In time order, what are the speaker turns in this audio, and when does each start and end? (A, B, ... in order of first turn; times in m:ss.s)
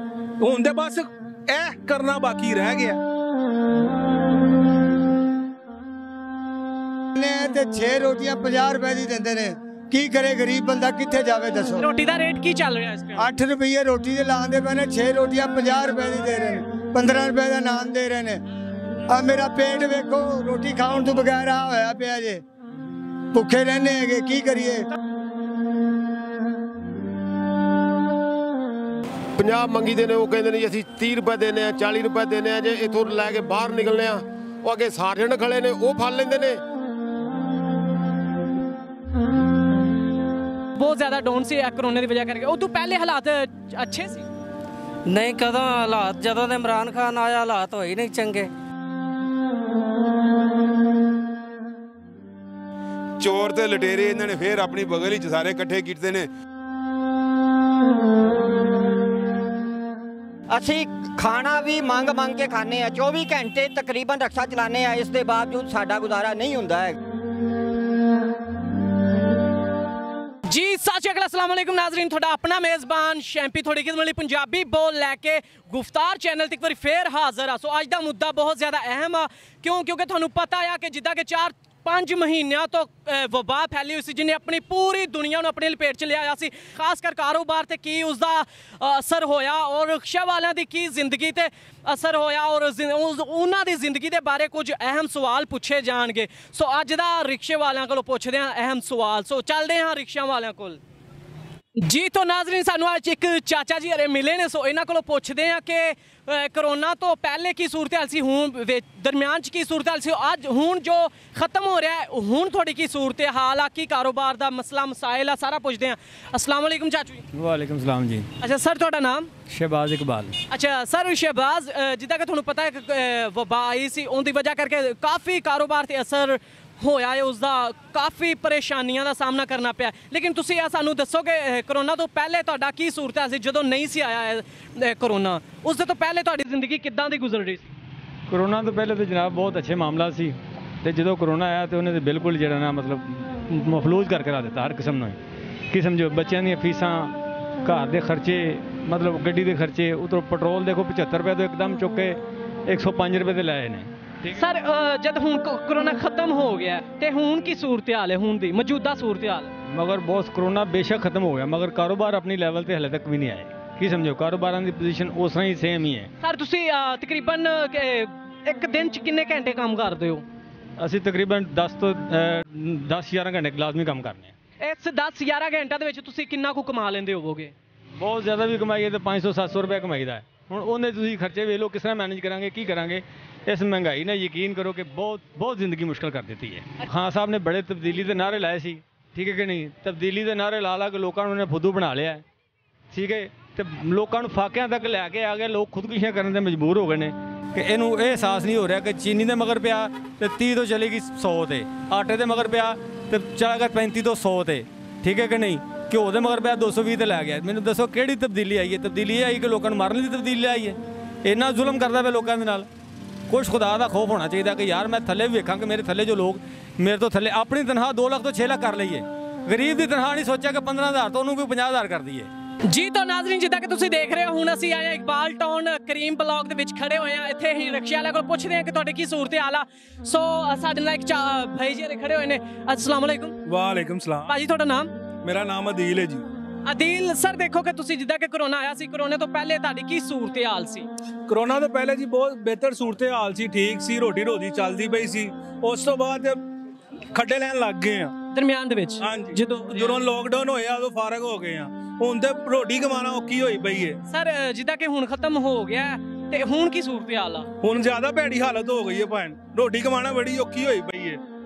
0:00.4-0:03.0 A
0:07.2-0:11.9 B
0:11.8-0:13.3 C
0:13.2-0:18.4 B
0:19.1-0:22.4 B
0:23.3-0:24.8 B
0:29.4-0:36.6 D
0:40.8-0:44.2 C
0:45.0-0:48.5 E
0:53.2-0:56.3 F
1:00.5-1:07.0 G
1:10.5-1:40.8 C
1:41.8-1:57.2 C
1:57.3-1:58.3 H
1:58.4-1:59.3 C
1:59.5-2:00.4 H
2:00.5-2:17.7 C
2:18.3-2:34.4 H
2:34.3-2:39.5 C
2:39.6-2:46.1 H
2:46.2-2:50.2 C
2:50.8-2:54.3 H
2:54.6-2:57.5 C
2:58.0-3:12.2 H
3:12.9-3:32.7 H
3:33.3-3:42.3 H
3:42.6-3:53.4 C
3:53.4-3:54.3 A
3:54.2-3:54.9 C
3:55.2-3:56.2 A
3:56.6-4:00.9 C
4:01.3-4:06.4 A
4:07.1-4:08.1 A
4:08.3-4:10.0 C
4:09.0-4:14.0 A
4:14.1-4:17.5 C
4:17.6-4:21.2 A